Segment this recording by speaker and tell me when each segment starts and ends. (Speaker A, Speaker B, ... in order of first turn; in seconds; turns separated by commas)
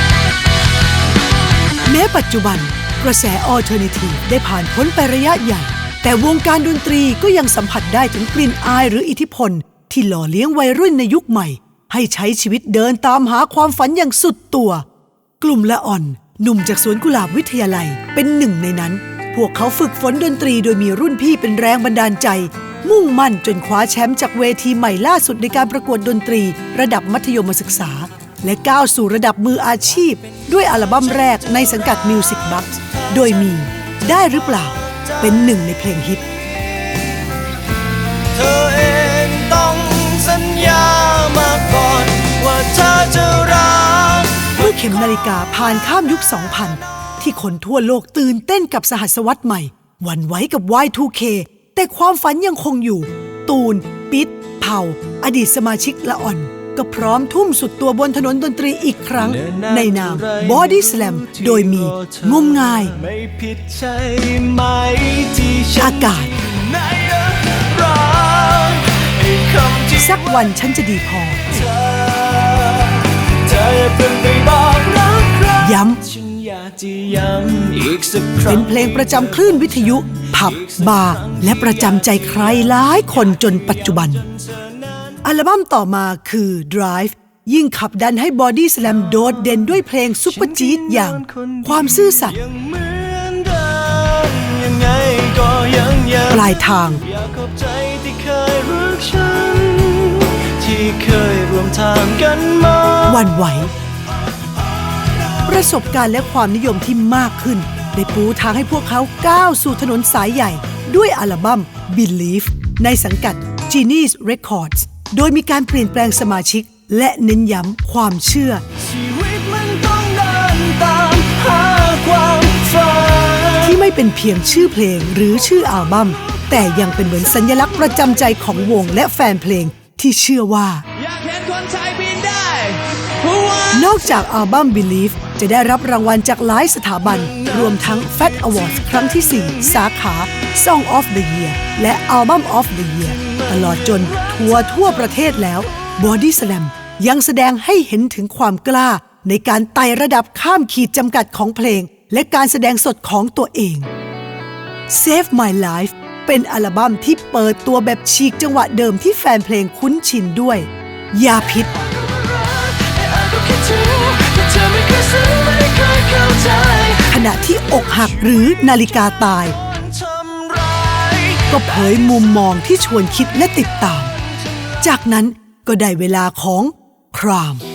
Speaker A: 1.9-14.8, Speaker A: 15.4-36.2, Speaker B: 32.8-33.1, Speaker B: 36.6-37.2, Speaker B: 38.2-44.8, Speaker A: 44.6-63.0, Speaker B: 59.2-70.1, Speaker A: 65.8-66.3, Speaker A: 69.9-71.6, Speaker B: 71.5-79.2, Speaker A: 75.6-76.0, Speaker A: 78.4-84.2, Speaker B: 80.6-82.2, Speaker B: 84.2-85.1, Speaker A: 85.2-92.4, Speaker B: 90.3-96.5, Speaker A: 96.3-97.0, Speaker B: 97.0-103.2, Speaker A: 103.0-103.7, Speaker A: 105.4-118.6, Speaker B: 118.8-123.8, Speaker A: 123.6-130.8, Speaker B: 131.0-133.9, Speaker A: 133.7-153.9, Speaker B: 143.2-144.3, Speaker A: 154.9-161.7, Speaker B: 161.7-167.2, Speaker A: 167.1-169.6, Speaker B: 169.6-171.6, Speaker A: 171.5-174.1, Speaker A: 174.8-177.6